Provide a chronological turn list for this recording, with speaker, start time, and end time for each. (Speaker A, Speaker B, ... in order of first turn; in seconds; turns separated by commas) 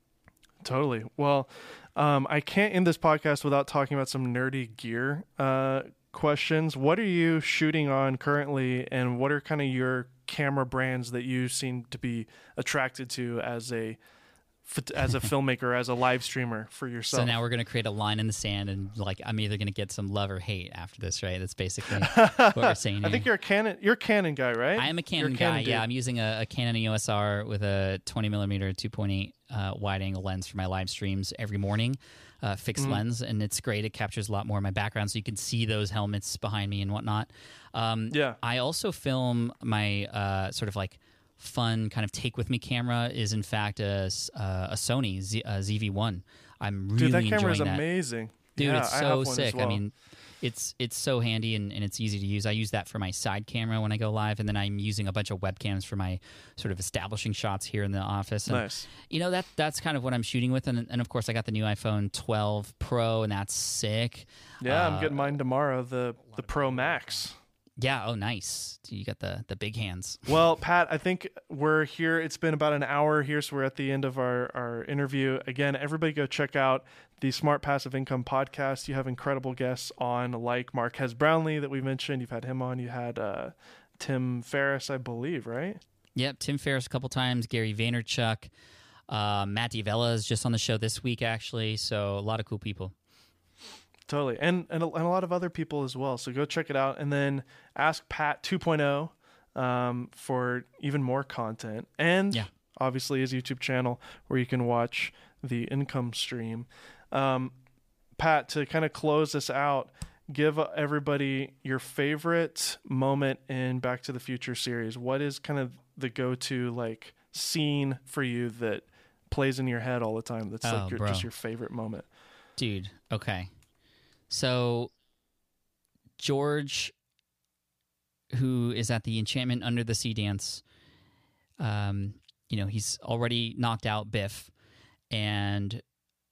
Speaker A: 0.6-14.0, Speaker A: 14.6-17.3, Speaker B: 17.1-23.3, Speaker A: 22.0-25.8, Speaker B: 24.8-47.8, Speaker A: 32.8-33.0, Speaker A: 38.1-38.4, Speaker A: 47.0-49.8, Speaker B: 48.6-65.3, Speaker A: 58.5-58.9, Speaker A: 64.6-67.4, Speaker B: 66.4-67.1, Speaker B: 67.8-70.3, Speaker A: 70.3-85.8, Speaker B: 86.2-88.5, Speaker B: 89.1-92.9, Speaker A: 94.1-107.5, Speaker A: 108.2-122.0, Speaker B: 120.6-121.3, Speaker B: 122.6-123.5, Speaker B: 124.3-124.9, Speaker B: 126.2-126.9, Speaker B: 128.3-130.6, Speaker B: 131.6-134.5, Speaker B: 135.1-135.8